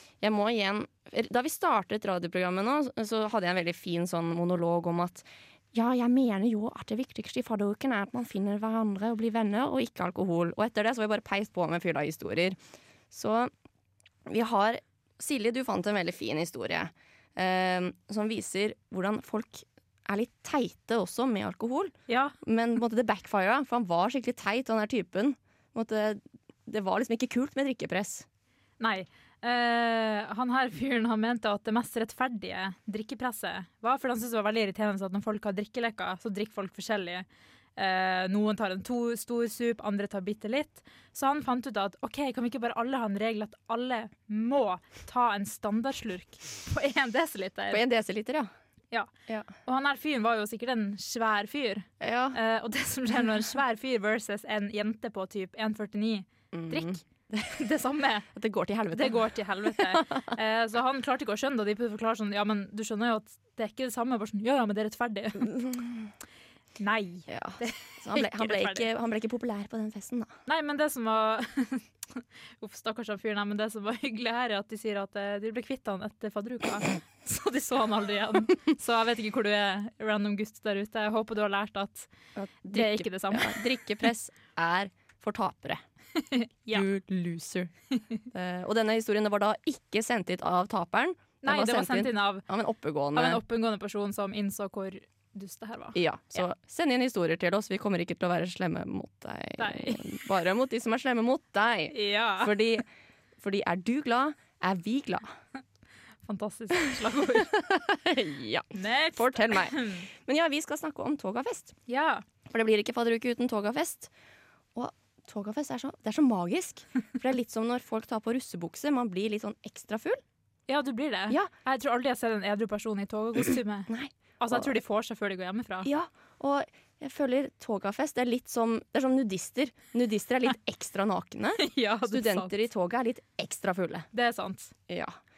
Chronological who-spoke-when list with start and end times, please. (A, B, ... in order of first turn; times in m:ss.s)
0:00.2-0:12.6 A
0:13.1-0:13.5 A
0:14.2-0:28.2 A
0:22.1-0:22.3 B
0:28.8-0:37.2 B
0:37.8-0:47.8 B
0:47.7-0:48.5 A
0:49.6-0:58.3 B
0:52.0-0:52.4 A
0:56.5-0:57.5 A
0:58.3-1:00.3 A
0:58.9-1:05.5 B
1:05.4-1:06.1 A
1:06.8-1:08.8 B
1:07.3-1:10.3 A
1:10.5-1:22.1 B
1:22.4-1:25.8 A
1:22.7-1:23.7 B
1:26.2-1:26.8 B
1:26.7-1:27.7 A
1:28.3-1:33.4 A
1:31.4-1:32.4 B
1:33.1-1:36.0 B
1:35.9-1:42.8 A
1:39.6-1:40.1 B
1:41.9-1:42.5 B
1:43.4-1:45.3 A
1:46.2-1:47.5 B
1:47.2-1:51.8 A
1:48.7-1:50.1 B
1:51.9-1:52.2 B
1:52.5-1:54.1 A
1:54.7-2:00.2 A
2:00.7-2:05.9 B
2:03.9-2:04.7 A
2:05.8-2:14.1 A
2:11.6-2:12.5 B
2:14.1-2:14.7 B
2:14.9-2:15.2 A